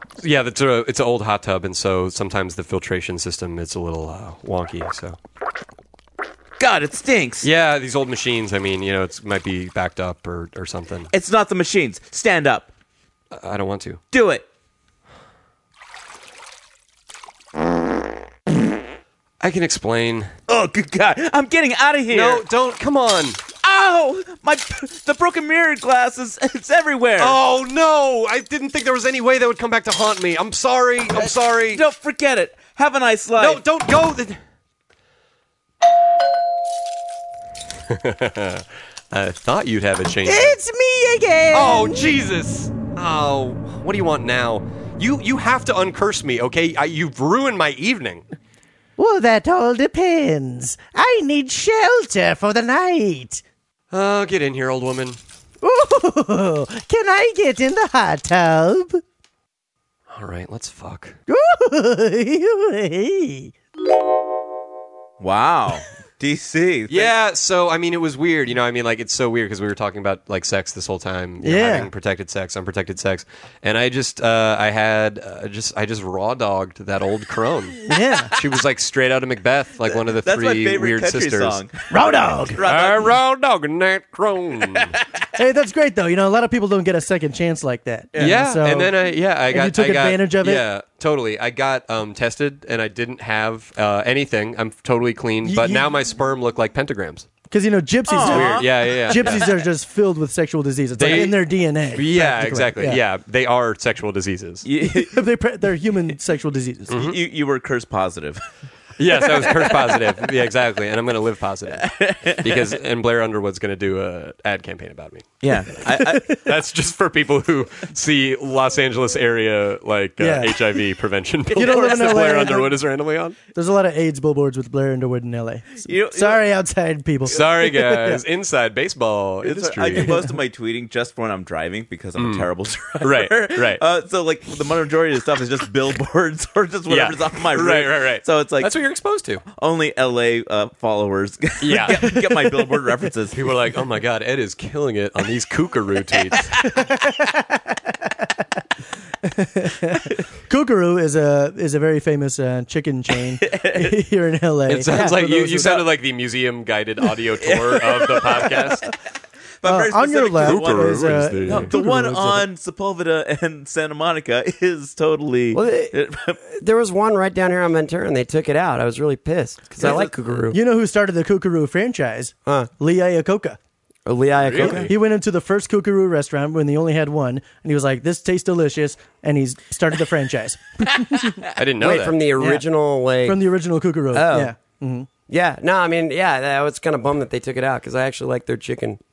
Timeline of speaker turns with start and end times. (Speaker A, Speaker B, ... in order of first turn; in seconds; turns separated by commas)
Speaker A: 0.2-5.2, Speaker B: 6.6-7.5, Speaker A: 7.4-11.1, Speaker B: 11.1-12.7, Speaker A: 13.3-14.0, Speaker B: 14.1-14.4, Speaker A: 19.4-20.3, Speaker B: 20.5-22.4, Speaker A: 22.1-23.4, Speaker B: 23.6-27.4, Speaker A: 27.2-31.8, Speaker B: 31.2-33.6, Speaker A: 33.4-34.4, Speaker A: 37.9-40.6, Speaker C: 40.3-42.1, Speaker A: 41.5-48.2, Speaker C: 49.0-53.4, Speaker A: 53.9-55.2, Speaker C: 55.6-59.0, Speaker A: 60.1-61.2, Speaker C: 61.3-63.5, Speaker B: 65.2-67.1, Speaker A: 66.9-81.6, Speaker C: 71.4-71.9, Speaker C: 77.9-78.3, Speaker B: 79.9-83.2, Speaker C: 81.9-82.6, Speaker A: 82.6-85.0, Speaker B: 84.7-85.0, Speaker C: 85.3-89.0, Speaker A: 88.2-97.3, Speaker C: 89.5-90.7, Speaker C: 95.4-95.9, Speaker C: 97.5-103.0, Speaker B: 98.1-99.5, Speaker A: 98.2-99.5, Speaker A: 101.0-101.4, Speaker A: 101.9-104.7, Speaker B: 104.7-105.2, Speaker C: 104.8-106.9, Speaker A: 106.9-107.2, Speaker B: 106.9-108.4, Speaker A: 109.0-123.4, Speaker B: 109.5-109.7, Speaker B: 111.7-112.7, Speaker B: 115.4-116.3, Speaker C: 115.9-116.4, Speaker C: 120.2-120.7, Speaker C: 121.5-122.8, Speaker B: 121.6-122.2, Speaker C: 123.5-128.2, Speaker B: 125.8-126.4, Speaker A: 127.3-130.2, Speaker B: 129.4-138.7, Speaker C: 130.0-130.2, Speaker A: 132.2-133.8, Speaker A: 136.9-139.4, Speaker B: 139.5-143.5, Speaker A: 141.6-142.2, Speaker C: 142.1-142.7, Speaker A: 143.3-146.6, Speaker C: 146.6-148.4, Speaker C: 149.2-155.8, Speaker B: 153.4-153.9, Speaker A: 154.7-158.9, Speaker B: 157.4-158.9, Speaker B: 159.6-166.4, Speaker C: 159.6-162.4, Speaker A: 160.4-161.7, Speaker D: 165.5-170.6, Speaker B: 169.8-170.1, Speaker C: 169.8-173.6, Speaker D: 174.1-174.9, Speaker A: 174.4-174.9, Speaker C: 174.6-181.4, Speaker A: 181.5-182.2, Speaker D: 181.8-183.4, Speaker C: 182.4-182.7, Speaker C: 183.2-185.1, Speaker D: 184.1-184.5, Speaker D: 185.3-189.0